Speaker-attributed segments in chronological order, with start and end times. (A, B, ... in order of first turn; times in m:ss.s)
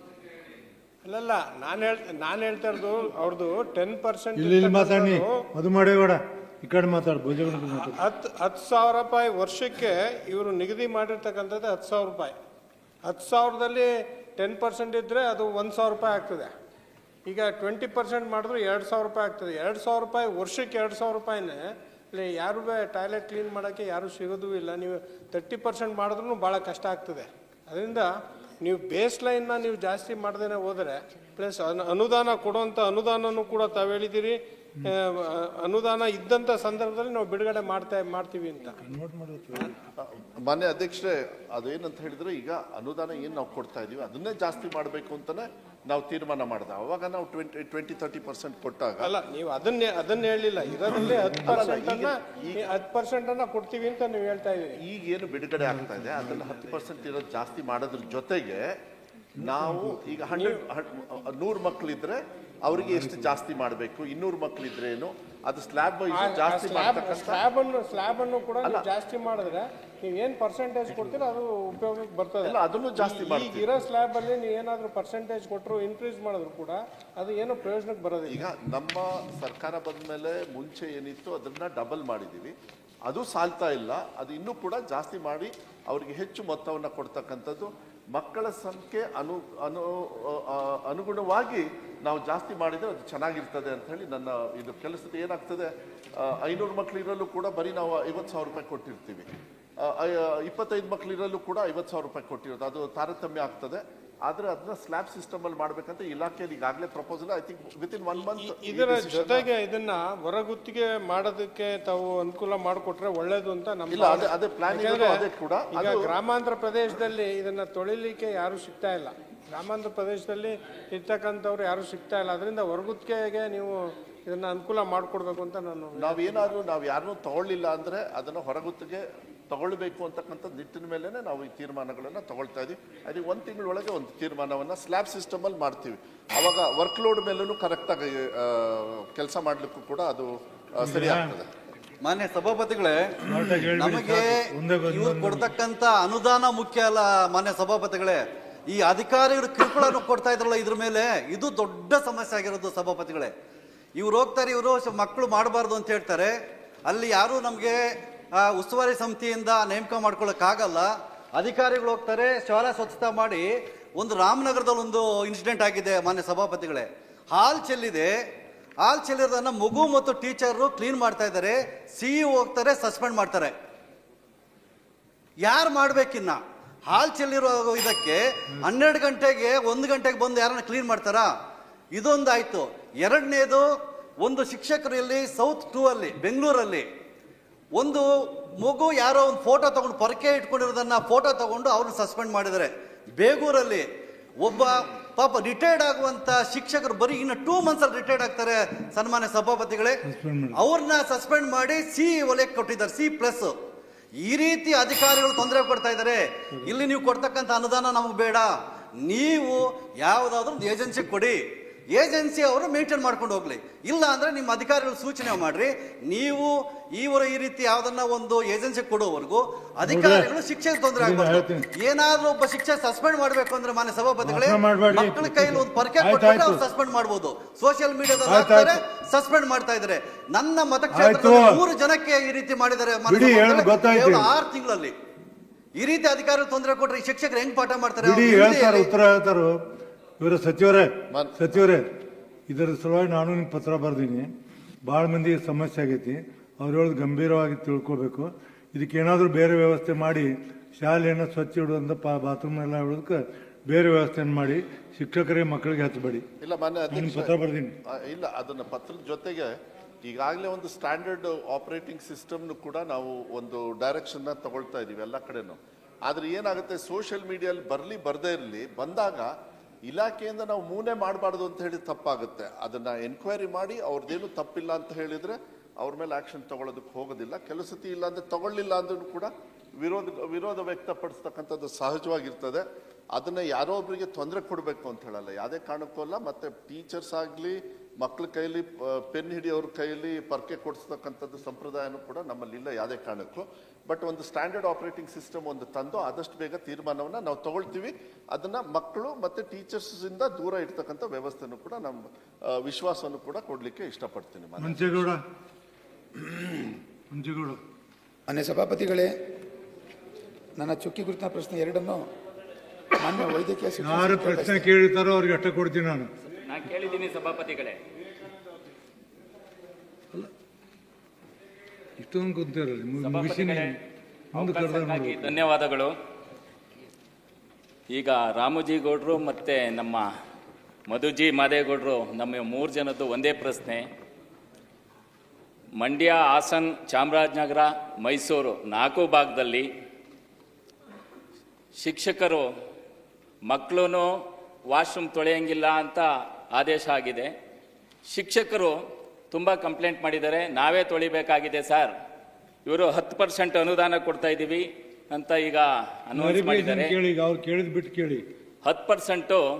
0:01.0-0:05.4 A
0:04.4-0:08.0 B
0:07.6-0:12.4 A
0:13.0-0:16.5 A
0:17.3-0:28.1 A
0:28.6-0:38.8 A
0:38.8-0:39.8 B
0:40.0-0:49.1 C
0:49.0-0:54.8 A
0:50.9-0:51.5 B
0:51.4-0:52.6 C
0:54.8-0:58.8 C
0:59.4-1:07.4 C
0:59.4-1:00.0 B
1:06.1-1:18.4 A
1:12.4-1:13.7 C
1:18.3-1:22.5 C
1:23.1-1:49.5 C
1:48.2-1:55.2 A
1:53.9-1:56.2 C
1:55.7-2:06.5 A
2:06.0-2:21.5 C
2:20.8-2:21.3 B
2:22.0-2:23.2 D
2:23.3-2:25.5 B
2:23.8-2:33.3 D
2:34.0-2:36.3 D
2:36.9-2:37.8 D
2:38.4-2:48.1 D
2:48.8-2:53.5 D
2:55.4-3:01.3 D
3:02.0-3:03.7 D
3:04.2-3:06.8 D
3:07.8-3:08.1 D
3:08.6-3:13.9 D
3:14.4-3:20.0 D
3:20.1-3:20.6 B
3:20.6-3:23.5 D
3:24.2-3:28.5 D
3:29.0-3:31.4 D
3:31.9-3:54.9 D
3:39.9-3:40.3 B
3:41.0-3:41.7 B
3:44.2-3:46.6 B
3:48.2-3:48.8 B
3:50.9-3:51.6 B
3:53.1-3:54.3 B
3:55.8-3:58.9 D
3:58.0-3:59.6 B
4:00.2-4:01.8 B
4:01.1-4:01.6 C
4:02.5-4:04.3 B
4:04.9-4:16.3 B
4:16.4-4:17.4 C
4:16.9-4:17.7 B
4:17.9-4:29.3 C
4:29.9-5:05.1 C
5:04.6-5:05.2 B
5:07.1-5:07.6 B
5:08.3-5:09.2 E
5:10.6-5:12.0 E
5:13.0-5:14.7 E
5:13.8-5:16.1 B
5:16.4-5:17.8 F
5:22.0-5:23.8 B
5:23.0-5:23.8 F
5:24.3-5:25.4 B
5:24.3-5:25.9 F
5:27.9-5:30.1 F
5:30.9-5:33.8 F
5:35.8-5:39.7 F
5:41.8-5:42.5 F
5:43.5-5:44.1 F
5:44.7-5:47.3 F
5:48.1-5:48.7 F
5:49.3-5:51.9 F
5:52.6-5:57.0 F
5:56.2-5:58.2 B
5:58.6-5:59.4 F